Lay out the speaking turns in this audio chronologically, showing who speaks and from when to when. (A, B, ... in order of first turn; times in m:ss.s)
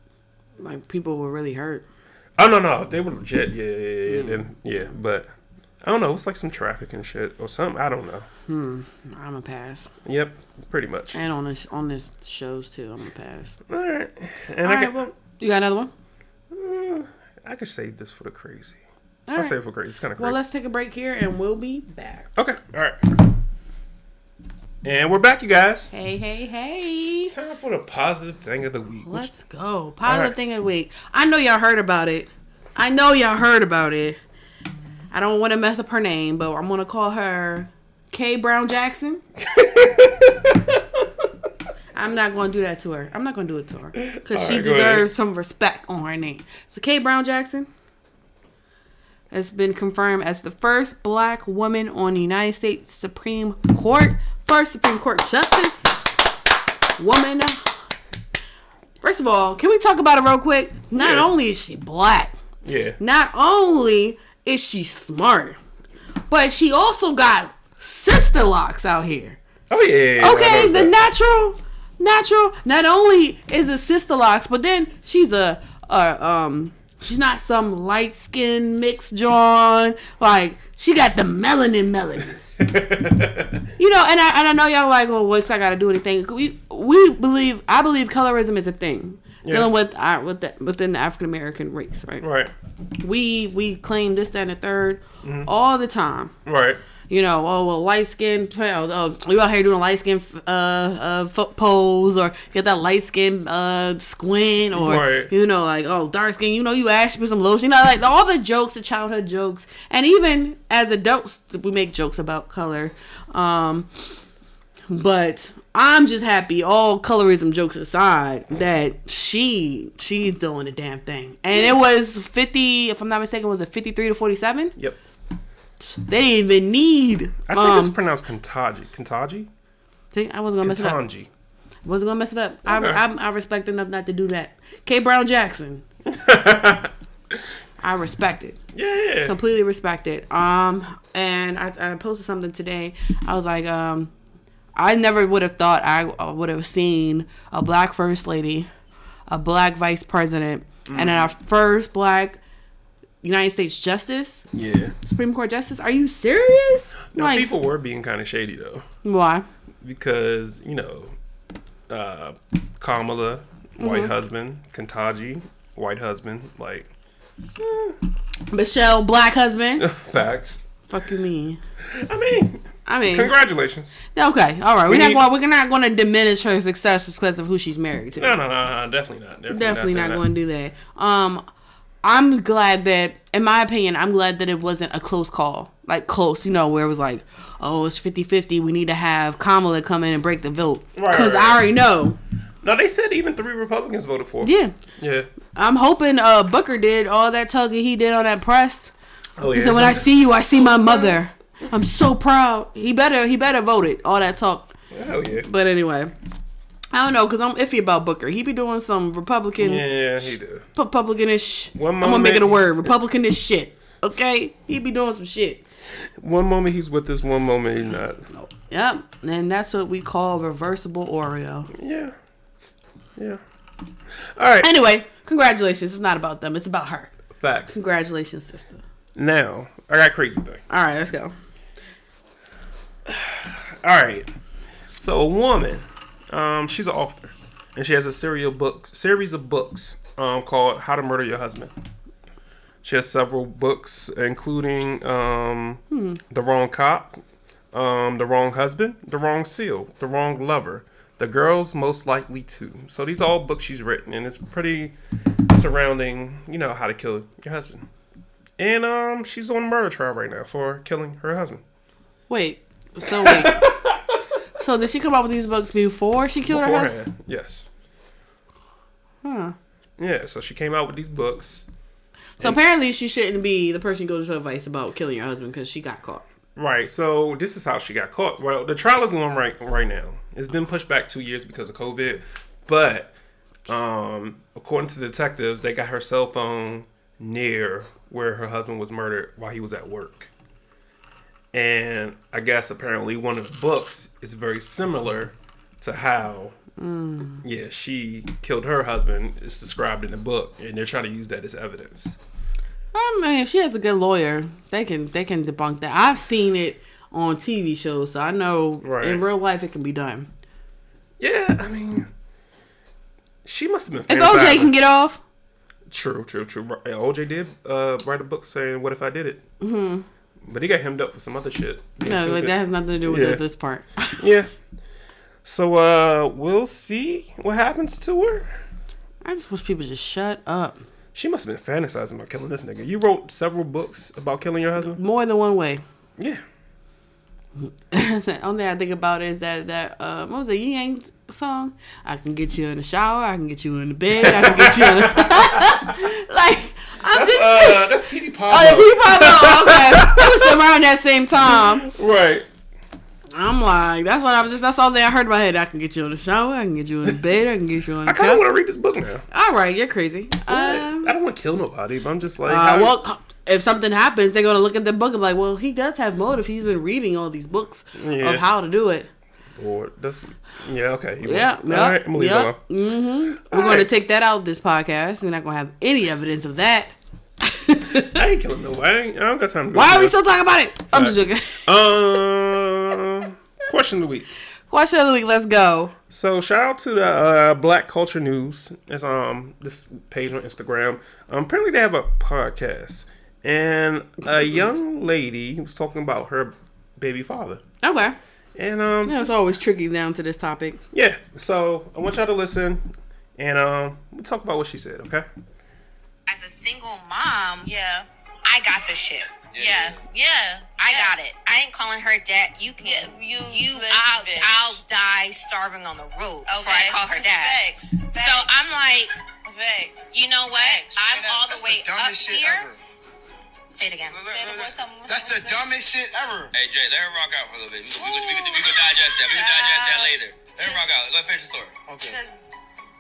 0:00.6-0:01.8 A
0:02.4-0:08.3 B
0:04.1-0:04.4 A
0:08.5-0:09.9 A
0:10.0-0:11.2 B
0:11.1-0:13.6 A
0:13.7-0:15.1 B
0:14.6-0:15.9 A
0:16.5-0:18.8 B
0:19.3-0:19.6 A
0:19.4-0:20.4 B
0:20.2-0:22.3 A
0:22.4-0:23.2 B
0:24.8-0:25.9 B
0:25.9-0:27.3 A
0:27.3-0:29.3 B
0:29.1-0:34.2 A
0:30.0-0:30.4 B
0:35.1-0:39.2 A
0:39.4-0:41.1 B
0:41.9-0:47.7 A
0:44.0-0:45.1 B
0:49.3-0:56.0 A
0:57.0-0:57.8 A
0:59.0-1:02.3 A
1:00.9-1:01.3 B
1:02.6-1:03.0 B
1:03.0-1:05.6 A
1:06.3-1:09.4 A
1:09.7-1:10.9 B
1:10.2-1:22.4 A
1:22.6-1:23.6 B
1:23.8-1:32.2 A
1:29.4-1:29.7 B
1:32.2-1:32.5 B
1:33.0-1:36.4 A
1:35.2-1:35.5 B
1:36.4-1:36.8 B
1:37.1-1:54.2 A
1:44.7-1:45.3 B
1:54.9-2:04.8 A
2:05.8-2:07.9 A
2:07.5-2:09.5 B
2:10.1-2:11.0 A
2:10.6-2:11.3 B
2:11.8-2:15.8 A
2:12.6-2:13.0 B
2:16.1-2:17.4 B
2:17.8-2:18.6 A
2:18.7-2:19.4 B
2:19.2-2:24.1 A
2:24.7-2:28.7 A
2:29.3-2:32.4 A
2:30.9-2:31.3 B
2:33.2-2:34.4 A
2:34.5-2:34.9 B
2:35.0-2:37.5 A
2:37.1-2:38.9 B
2:39.0-2:39.5 A
2:39.8-2:41.1 B
2:41.9-2:46.9 B
2:43.8-2:44.1 A
2:47.6-2:48.0 B
2:48.5-2:49.9 A
2:49.8-2:50.6 B
2:50.9-2:51.6 A
2:51.9-2:54.0 B
2:52.9-2:53.3 A
2:54.1-2:58.4 A
2:54.9-2:55.2 B
2:58.2-3:00.2 B
2:59.5-3:01.4 A
3:02.0-3:12.2 A
3:11.0-3:11.6 B
3:12.6-3:15.3 B
3:14.4-3:14.7 A
3:15.5-3:18.9 A
3:19.4-3:21.2 B
3:19.5-3:24.7 A
3:24.9-3:25.5 B
3:25.4-3:26.1 A
3:26.9-3:35.6 A
3:29.6-3:30.6 B
3:31.7-3:32.9 B
3:36.0-3:38.2 B
3:38.3-3:41.7 A
3:41.7-3:42.1 B
3:44.1-3:44.7 B
3:44.6-3:47.1 A
3:47.4-3:47.8 B
3:47.7-3:48.8 A
3:49.1-3:50.6 B
3:50.7-3:51.3 A
3:53.1-3:54.3 B
3:55.0-4:01.7 B
4:02.8-4:07.2 B
4:05.9-4:06.2 A
4:07.7-4:14.9 B
4:15.5-4:17.9 B
4:18.6-4:21.6 B
4:22.3-4:23.8 A
4:23.1-4:24.2 B
4:24.6-4:26.9 A
4:26.4-4:27.6 B
4:29.2-4:29.6 A
4:30.0-4:31.7 B
4:32.4-4:36.2 A
4:36.6-4:43.1 B
4:43.7-4:50.3 B
4:51.5-4:56.6 B
4:56.8-4:57.4 A
4:57.4-5:02.2 B
5:02.9-5:10.3 A
5:08.8-5:09.2 B
5:11.2-5:12.1 B
5:13.4-5:14.7 B
5:14.1-5:15.2 A
5:15.9-5:19.4 B
5:19.6-5:20.1 A
5:20.4-5:23.4 B
5:22.0-5:24.2 A
5:24.2-5:24.5 B
5:25.4-5:28.6 B
5:29.2-5:30.8 A
5:31.1-5:35.0 B
5:34.8-5:35.8 A
5:37.6-5:51.9 A
5:44.2-5:46.0 B
5:47.1-5:50.6 B
5:51.4-5:52.5 B
5:53.3-5:58.4 A
5:58.0-5:59.2 B
5:59.3-6:01.1 A
6:00.5-6:03.0 B
6:02.4-6:09.1 A
6:07.9-6:08.4 B
6:09.5-6:12.6 B
6:11.2-6:18.2 A
6:13.4-6:13.9 B
6:18.1-6:20.2 B
6:19.7-6:21.7 A
6:20.8-6:24.3 B
6:24.7-6:25.9 A
6:26.1-6:37.6 B
6:37.8-6:38.2 A
6:38.6-6:39.4 B
6:39.0-6:40.8 A
6:40.9-6:45.3 B
6:46.3-6:47.7 C
6:47.6-6:48.1 D
6:48.5-6:49.4 C
6:49.5-6:50.0 E
6:49.5-6:51.2 D
6:50.8-6:59.1 C
6:52.8-6:54.8 D
6:56.5-6:58.5 D
6:59.4-7:01.4 D
7:00.1-7:02.7 C
7:01.1-7:02.8 F
7:03.7-7:04.2 C
7:04.2-7:05.7 D
7:04.2-7:04.7 E
7:05.1-7:06.5 F
7:06.5-7:11.8 E
7:07.9-7:10.8 D
7:11.9-7:12.2 F
7:12.0-7:12.5 D